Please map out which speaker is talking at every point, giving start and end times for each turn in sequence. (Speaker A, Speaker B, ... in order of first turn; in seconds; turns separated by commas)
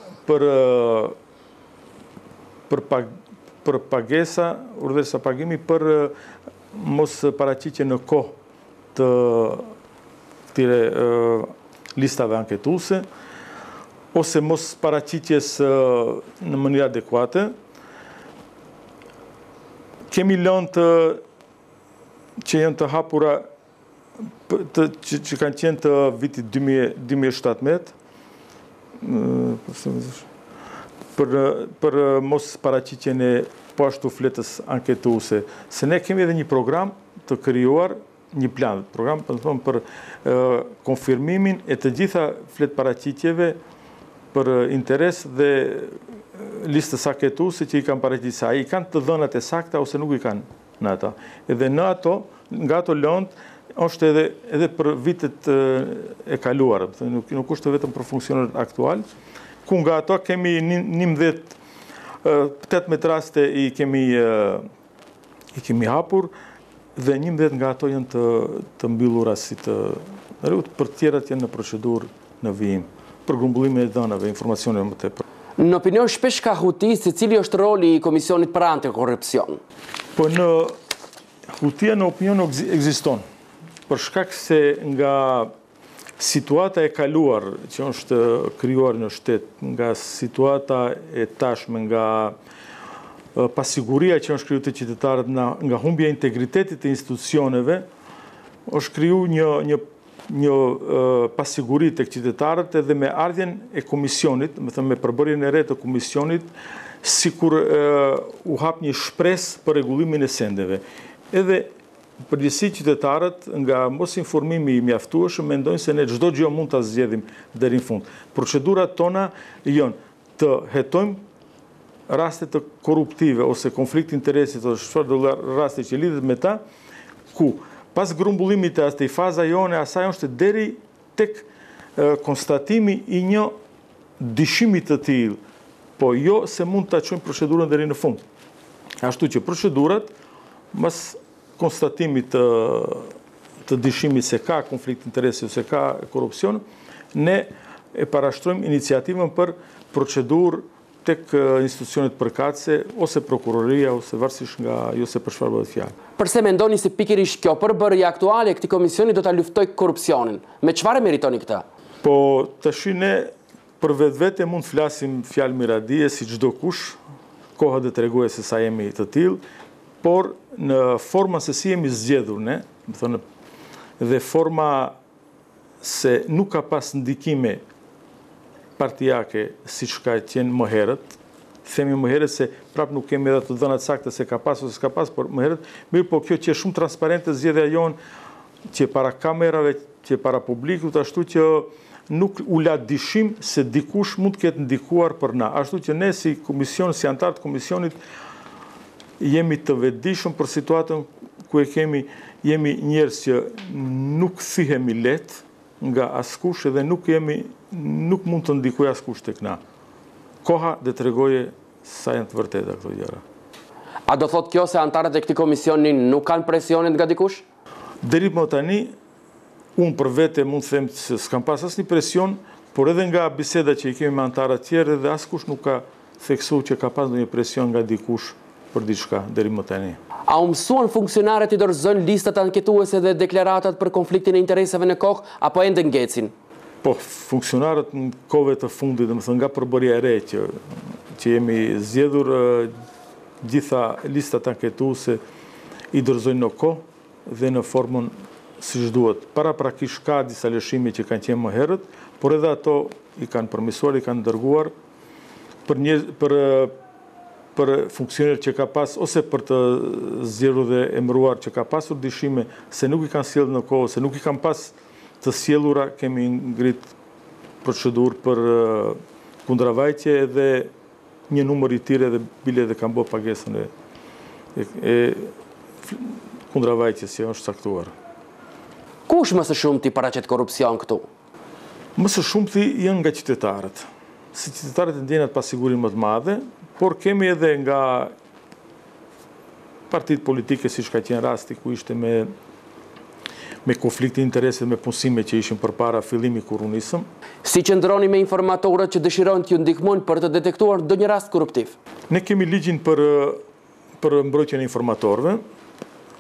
Speaker A: 0.2-1.1, Speaker A: 2.7-3.1, Speaker A: 3.6-6.1, Speaker A: 6.7-8.4, Speaker A: 8.9-9.7, Speaker A: 10.5-13.1, Speaker A: 14.1-17.6, Speaker A: 20.1-21.2, Speaker A: 22.4-23.5, Speaker A: 24.5-27.9, Speaker A: 29.0-30.3, Speaker A: 31.1-43.6, Speaker A: 44.3-59.0, Speaker A: 59.7-61.6, Speaker A: 62.2-64.7, Speaker A: 65.5-66.3, Speaker A: 67.0-75.2, Speaker B: 75.6-79.6, Speaker A: 80.2-80.8, Speaker A: 81.5-83.2, Speaker A: 83.9-85.5, Speaker A: 86.2-92.4, Speaker A: 93.3-97.8, Speaker A: 98.7-106.5, Speaker A: 107.0-111.7, Speaker A: 112.3-121.2, Speaker A: 122.1-126.6, Speaker A: 127.3-133.5, Speaker A: 134.2-135.4, Speaker A: 136.0-138.2, Speaker A: 139.0-140.1, Speaker A: 140.7-155.9, Speaker B: 156.2-161.6, Speaker A: 162.0-167.0, Speaker A: 167.6-169.4, Speaker A: 170.0-173.2, Speaker A: 174.0-174.9, Speaker A: 175.8-177.6, Speaker A: 178.8-188.0, Speaker A: 188.7-198.0, Speaker A: 199.2-209.6, Speaker A: 210.4-213.2, Speaker B: 214.1-217.4, Speaker A: 218.0-218.9, Speaker A: 219.8-230.0, Speaker B: 230.3-236.3, Speaker A: 236.8-242.7, Speaker A: 243.4-245.2, Speaker A: 245.9-254.7, Speaker A: 255.7-256.7, Speaker A: 257.6-266.9, Speaker A: 267.6-270.7, Speaker A: 271.3-273.7, Speaker A: 274.6-275.3, Speaker A: 275.9-277.9, Speaker B: 279.1-281.1, Speaker A: 282.0-288.1, Speaker A: 289.9-292.3, Speaker A: 293.6-297.1, Speaker B: 297.4-301.8, Speaker A: 302.1-303.4, Speaker A: 304.0-305.4